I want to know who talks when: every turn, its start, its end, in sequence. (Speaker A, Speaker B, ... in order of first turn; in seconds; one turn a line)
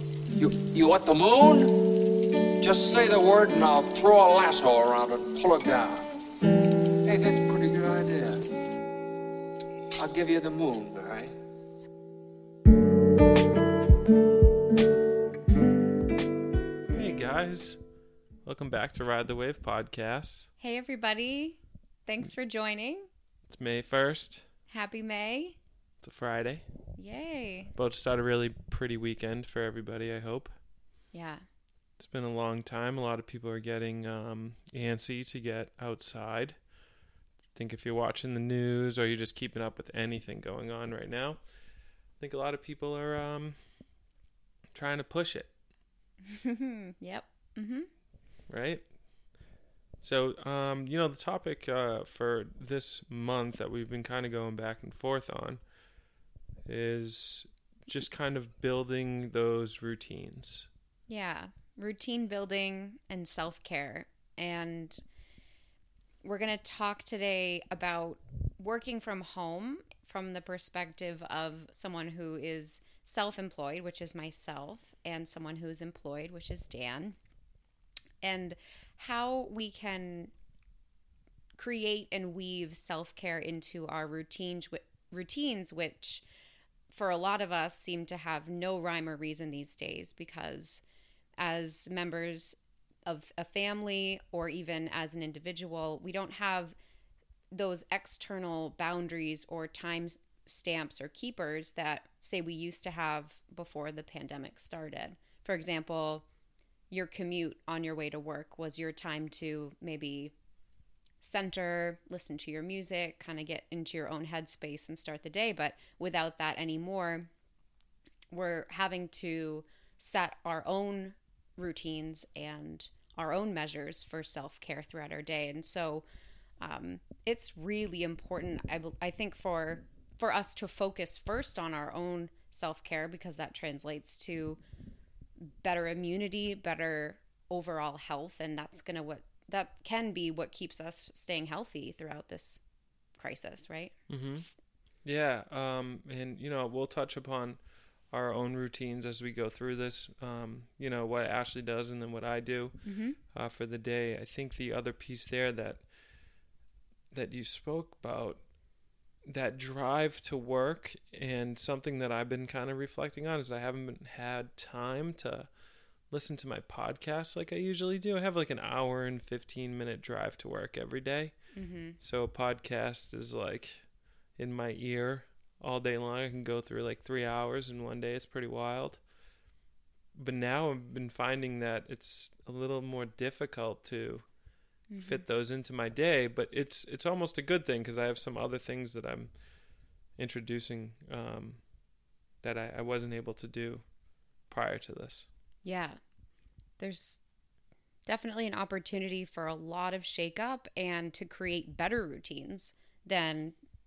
Speaker A: 0.3-1.7
Speaker A: 2.6-6.1
Speaker A: 7.0-8.4
Speaker A: 10.0-11.3
Speaker B: 16.9-17.8
Speaker B: 18.4-20.5
Speaker C: 20.6-23.1
Speaker B: 23.5-24.4
Speaker C: 24.7-25.6
Speaker B: 26.0-26.6
Speaker C: 27.0-27.7
Speaker B: 27.8-30.5
Speaker C: 31.1-31.4
Speaker B: 32.0-36.6
Speaker B: 37.5-41.4
Speaker B: 42.2-43.6
Speaker B: 44.7-45.5
Speaker C: 46.2-47.9
Speaker B: 48.5-48.9
Speaker B: 50.0-55.6
Speaker B: 56.6-60.7
Speaker C: 61.1-65.0
Speaker C: 66.2-77.2
Speaker C: 78.2-80.3
Speaker C: 81.5-86.2
Speaker C: 86.9-90.8
Speaker C: 91.4-96.8
Speaker C: 97.5-106.2
Speaker C: 106.9-110.3
Speaker C: 111.2-117.3
Speaker C: 118.3-126.0
Speaker C: 126.6-134.6
Speaker C: 135.4-142.6
Speaker C: 143.2-143.9
Speaker B: 144.1-144.5
Speaker B: 145.0-147.6
Speaker B: 148.1-152.8
Speaker C: 152.8-153.2
Speaker B: 153.3-155.8
Speaker B: 157.1-158.4
Speaker B: 159.3-165.5
Speaker B: 166.1-171.3
Speaker C: 171.5-172.0
Speaker B: 172.0-173.8
Speaker B: 174.4-179.0
Speaker B: 180.1-184.2
Speaker C: 184.9-185.2
Speaker B: 185.0-189.3
Speaker B: 190.2-191.6
Speaker B: 192.4-193.8
Speaker B: 194.5-195.3
Speaker C: 195.6-196.0
Speaker C: 196.8-197.2
Speaker C: 198.1-203.6